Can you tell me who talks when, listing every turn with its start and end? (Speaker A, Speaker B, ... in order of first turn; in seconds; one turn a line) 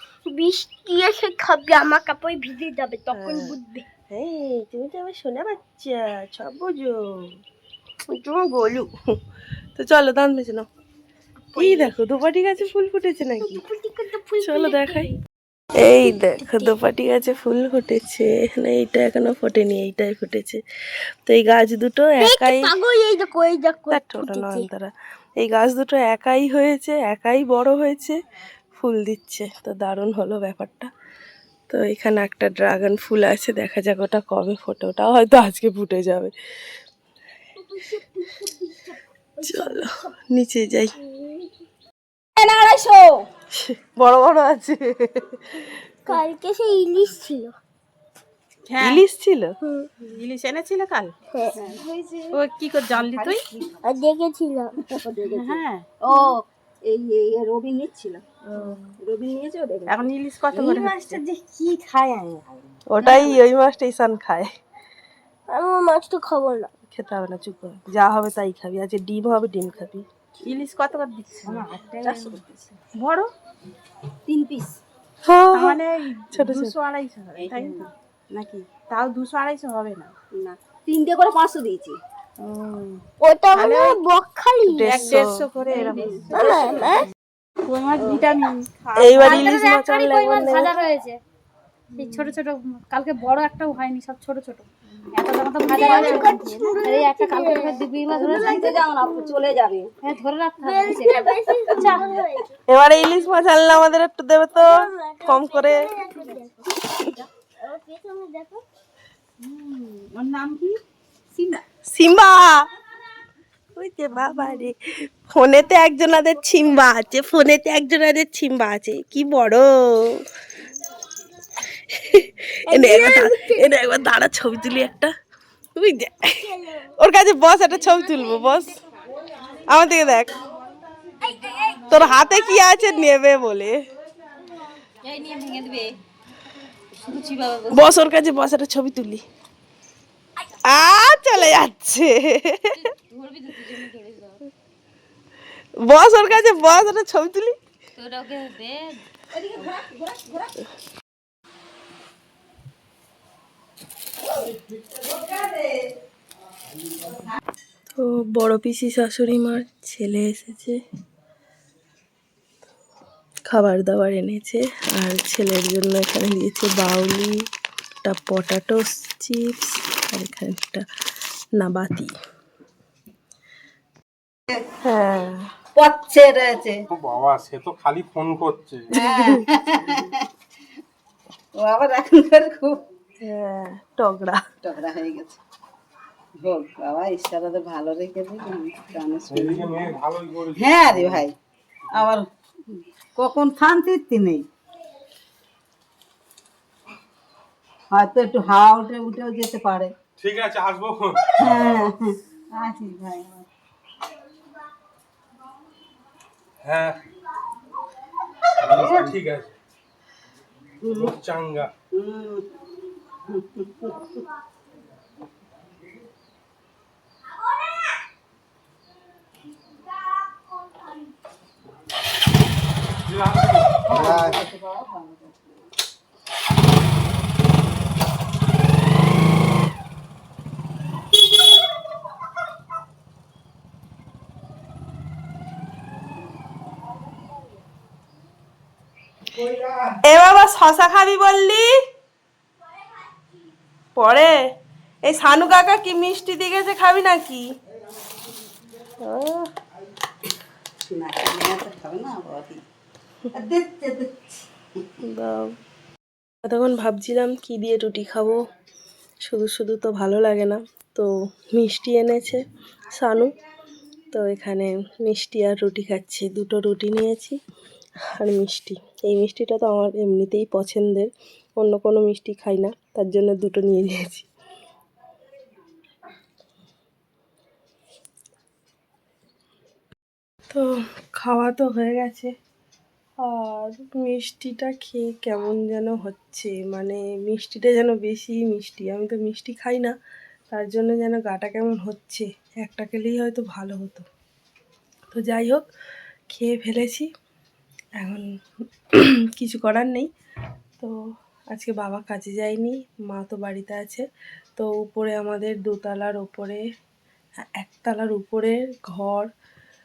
Speaker A: 0.2-3.8
Speaker B: 3.1-3.6
Speaker B: 4.1-7.4
Speaker B: 8.1-8.9
Speaker B: 9.8-10.7
Speaker B: 11.5-13.6
Speaker A: 11.6-11.9
Speaker A: 13.4-15.1
Speaker B: 14.4-15.1
Speaker B: 15.7-20.6
Speaker A: 16.0-16.7
Speaker B: 21.2-22.7
Speaker A: 22.2-24.6
Speaker B: 23.9-28.1
Speaker B: 28.8-30.9
Speaker B: 31.7-36.3
Speaker A: 37.6-40.1
Speaker B: 39.4-40.9
Speaker A: 41.1-41.5
Speaker C: 42.4-43.1
Speaker B: 43.5-46.2
Speaker A: 46.1-47.5
Speaker B: 48.8-49.5
Speaker D: 50.0-51.1
Speaker A: 51.3-51.6
Speaker C: 51.5-53.9
Speaker D: 52.4-53.4
Speaker A: 53.8-55.6
Speaker C: 54.9-60.1
Speaker D: 55.4-55.9
Speaker D: 59.9-61.0
Speaker A: 60.5-61.7
Speaker B: 62.9-64.5
Speaker A: 63.0-63.4
Speaker A: 65.5-66.7
Speaker B: 66.9-70.0
Speaker D: 70.4-73.3
Speaker B: 72.0-72.4
Speaker C: 74.3-74.8
Speaker B: 75.2-76.8
Speaker D: 75.6-80.1
Speaker C: 77.4-77.9
Speaker C: 80.3-82.0
Speaker D: 82.4-82.9
Speaker A: 83.2-85.2
Speaker D: 83.6-83.9
Speaker B: 84.7-85.4
Speaker D: 85.0-86.6
Speaker C: 85.8-86.8
Speaker A: 86.3-87.1
Speaker D: 87.7-88.7
Speaker B: 88.9-90.7
Speaker E: 89.1-91.2
Speaker E: 91.9-98.8
Speaker A: 95.7-98.5
Speaker C: 95.8-96.6
Speaker C: 98.1-99.9
Speaker E: 100.0-102.1
Speaker A: 100.6-102.5
Speaker B: 102.7-106.3
Speaker A: 104.5-108.6
Speaker B: 111.8-112.6
Speaker B: 113.8-120.2
Speaker B: 121.7-125.1
Speaker A: 122.7-123.7
Speaker B: 125.8-128.8
Speaker B: 129.6-130.4
Speaker A: 131.2-132.0
Speaker B: 131.8-133.8
Speaker B: 137.7-139.2
Speaker B: 140.6-142.8
Speaker B: 145.8-147.6
Speaker C: 149.3-150.5
Speaker C: 154.8-155.8
Speaker C: 157.1-157.4
Speaker B: 157.9-160.8
Speaker B: 163.5-167.3
Speaker B: 168.0-170.8
Speaker B: 171.6-172.1
Speaker B: 174.8-175.4
Speaker C: 175.8-176.8
Speaker F: 176.9-178.9
Speaker B: 178.9-179.5
Speaker C: 178.9-180.2
Speaker C: 181.5-182.8
Speaker B: 183.2-184.4
Speaker C: 184.6-185.4
Speaker C: 186.4-189.9
Speaker F: 189.3-191.2
Speaker C: 190.5-191.3
Speaker C: 191.9-194.5
Speaker C: 197.9-199.9
Speaker F: 200.2-201.6
Speaker C: 201.4-203.5
Speaker F: 206.6-207.0
Speaker F: 208.6-209.5
Speaker C: 208.7-209.2
Speaker C: 210.8-211.2
Speaker F: 210.9-211.7
Speaker C: 211.9-212.5
Speaker C: 213.2-214.1
Speaker A: 217.3-217.9
Speaker F: 223.1-224.3
Speaker C: 223.8-225.5
Speaker B: 240.0-241.7
Speaker B: 243.9-244.3
Speaker B: 245.0-247.4
Speaker B: 249.0-249.5
Speaker C: 250.9-252.6
Speaker C: 253.3-254.5
Speaker B: 255.0-255.5
Speaker B: 256.4-258.4
Speaker B: 259.2-263.3
Speaker B: 264.1-267.4
Speaker B: 268.2-274.2
Speaker B: 281.2-282.3
Speaker B: 283.2-289.9
Speaker B: 290.5-294.1
Speaker B: 295.1-295.7
Speaker B: 296.3-297.1
Speaker B: 298.0-298.2
Speaker B: 298.9-300.1
Speaker B: 301.5-304.1
Speaker B: 304.6-306.6
Speaker B: 307.6-309.3